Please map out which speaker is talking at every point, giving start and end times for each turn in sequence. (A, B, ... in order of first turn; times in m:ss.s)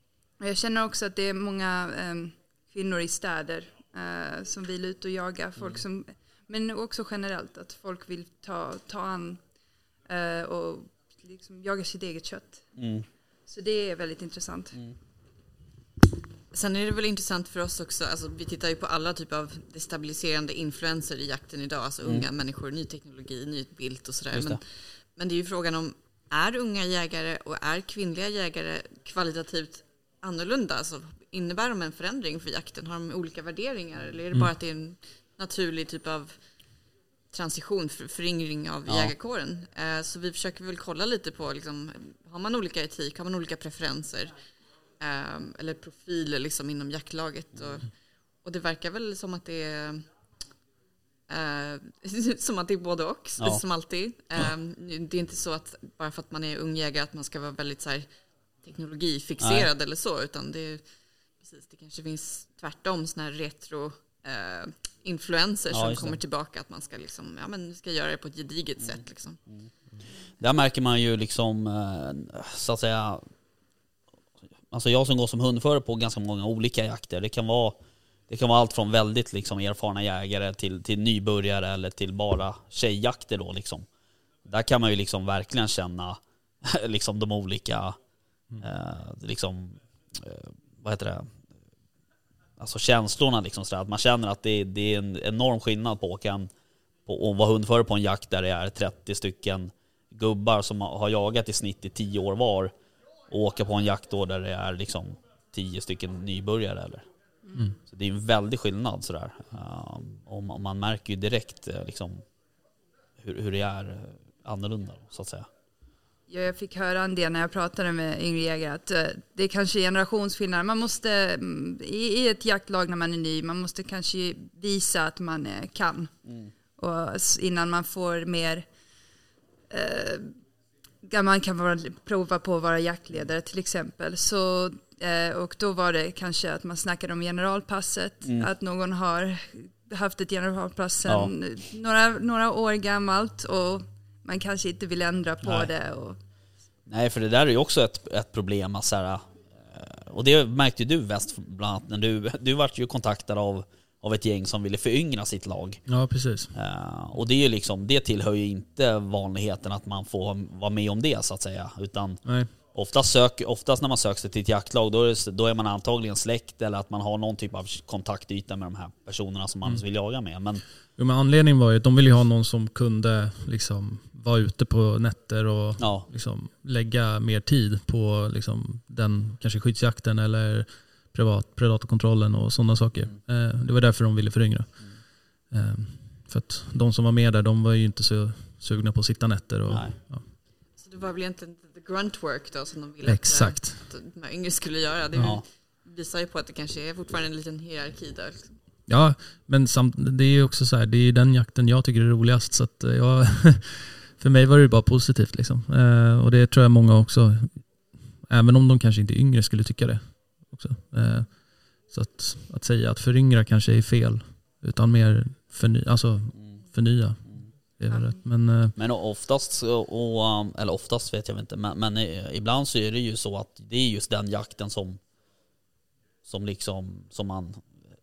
0:00.4-0:09.4 A
0:10.0-0:12.7 A
0:12.8-0:13.0 B
0:13.5-0:14.8 A
0:16.5-0:24.6 C
0:24.3-0:24.6 B
0:25.2-0:36.4 C
0:37.3-0:44.3 C
0:38.9-0:39.1 B
0:45.0-0:47.9 C
0:48.4-0:50.0 C
0:51.3-0:58.1 C
0:58.6-1:00.8 C
0:59.4-0:59.7 B
1:01.4-1:09.4 C
1:05.7-1:06.2 B
1:08.8-1:09.7 B
1:10.4-1:13.2 B
1:14.7-1:17.8 B
1:18.3-1:23.9 B
1:24.4-1:28.0 B
1:28.6-1:31.3 B
1:32.6-1:36.5 B
1:37.0-1:42.7 B
1:43.3-1:47.0 B
1:47.4-1:47.7 A
1:47.9-1:52.2 B
1:53.2-1:55.5 B
1:56.3-2:06.1 A
2:06.2-2:06.5 B
2:06.8-2:08.6 A
2:09.7-2:10.3 A
2:11.0-2:26.2 A
2:21.0-2:21.3 B
2:25.4-2:25.7 B
2:26.9-2:35.8 B
2:35.9-2:36.5 D
2:36.5-2:50.6 B
2:42.2-2:42.5 D
2:51.0-3:04.9 D
2:55.8-2:56.1 B
3:05.5-3:10.2 D
3:09.7-3:10.0 B
3:10.8-3:18.6 C
3:13.0-3:13.8 D
3:15.2-3:15.4 B
3:18.9-3:27.6 D
3:28.2-3:38.7 D
3:37.9-3:38.2 A
3:38.8-3:45.0 B
3:46.2-3:47.6 B